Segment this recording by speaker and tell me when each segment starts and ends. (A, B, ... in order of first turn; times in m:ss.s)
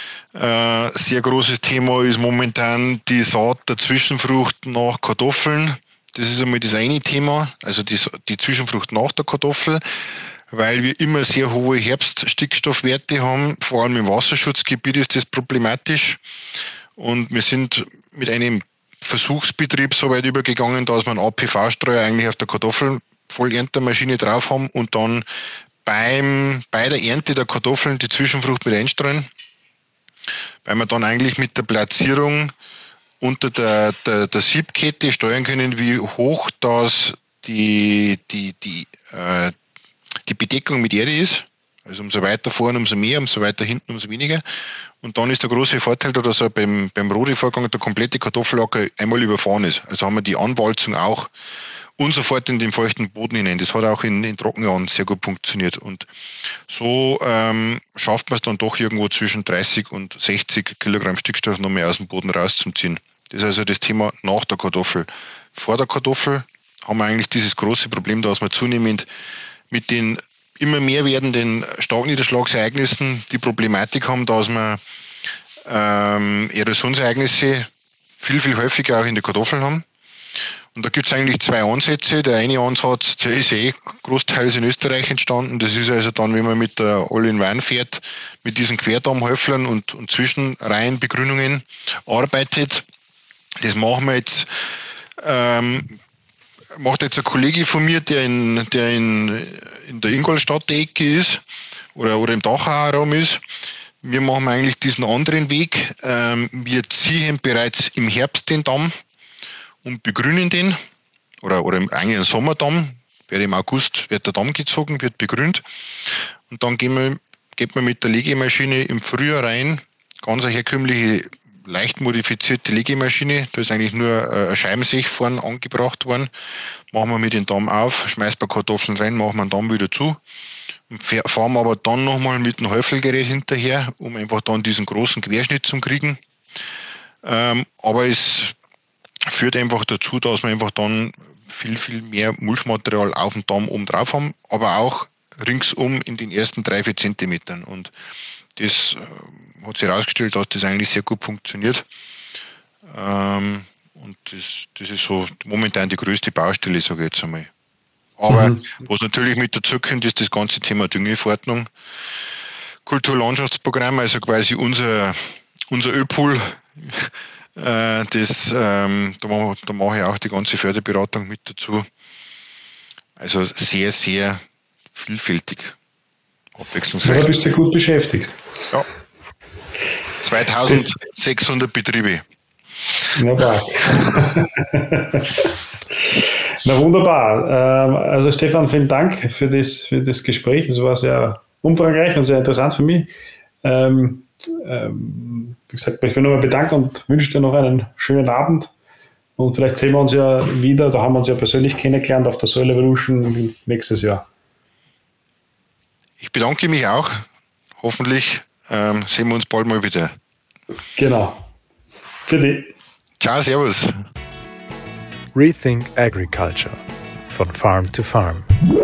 0:00.3-0:09.8 A
0:10.5-0:16.2 A
0:17.0-0:25.3 A
0:25.8-0:29.3 A
0:30.6-0:32.5 A
0:33.2-0:39.6 A
0:40.3-0:44.4 A
0:45.0-0:51.3 A
0:52.0-0:56.1 A
0:56.7-1:09.1 A
1:09.7-1:14.8 A
1:15.6-1:19.9 A
1:20.7-1:32.8 A
1:33.6-1:34.5 A
1:35.2-1:36.0 A
1:36.8-1:41.4 A
1:42.0-1:43.4 A
1:44.0-1:49.0 A
1:49.8-1:50.8 A
1:51.4-2:06.3 A
2:06.9-2:10.2 A
2:10.9-2:16.2 A
2:17.2-2:18.6 A
2:19.3-2:27.9 A
2:28.6-2:31.9 A
2:32.9-2:37.5 A
2:38.2-2:41.7 A
2:38.3-2:38.6 B
2:42.8-2:51.9 A
2:53.2-2:54.4 A
2:54.9-2:55.8 A
2:56.6-2:57.4 A
2:57.0-2:58.4 B
3:00.2-3:02.2 A
3:00.7-3:00.9 B
3:03.1-3:05.5 B
3:06.1-3:13.1 B
3:13.6-3:18.7 B
3:19.4-3:24.3 B
3:26.2-3:27.2 A
3:27.8-3:30.1 A
3:31.0-3:31.4 B
3:32.3-3:32.7 B
3:33.2-3:33.9 A
3:35.3-3:38.5 C